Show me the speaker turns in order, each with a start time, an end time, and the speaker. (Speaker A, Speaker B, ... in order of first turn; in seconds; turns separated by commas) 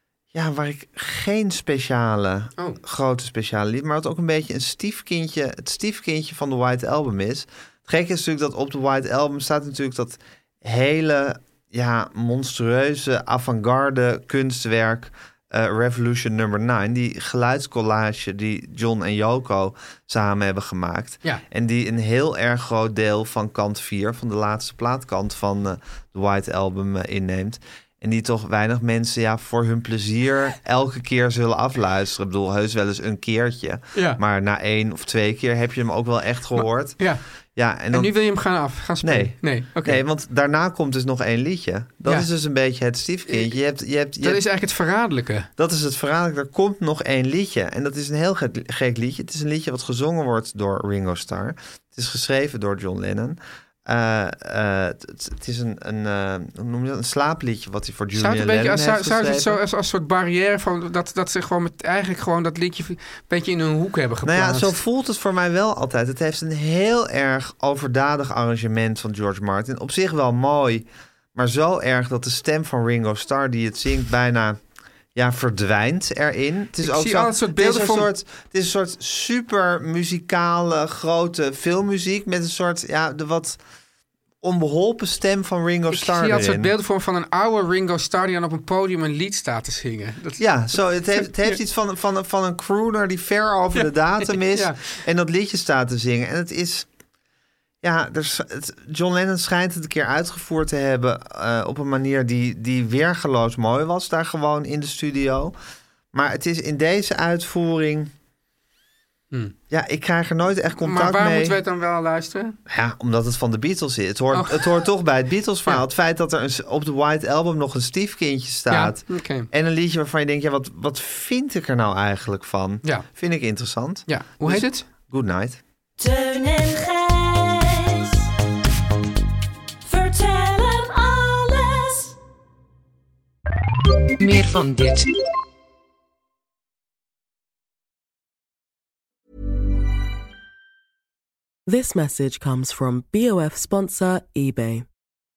Speaker A: 0.3-38.1, Speaker B: 33.9-34.2, Speaker B: 37.9-40.0, Speaker A: 39.0-44.4, Speaker B: 44.2-45.5, Speaker A: 45.6-59.6, Speaker B: 58.1-64.8, Speaker A: 64.2-74.6, Speaker A: 75.1-83.6, Speaker B: 76.8-78.1, Speaker A: 84.4-86.7, Speaker B: 85.9-91.6, Speaker A: 90.4-96.9, Speaker B: 94.5-94.9, Speaker A: 97.8-105.5, Speaker A: 106.1-108.1, Speaker A: 109.7-111.6, Speaker B: 110.8-112.6, Speaker A: 112.7-125.6, Speaker B: 114.3-114.7, Speaker B: 118.7-119.5, Speaker B: 124.1-124.9, Speaker C: 126.0-128.2, Speaker C: 129.8-132.1, Speaker D: 141.7-144.8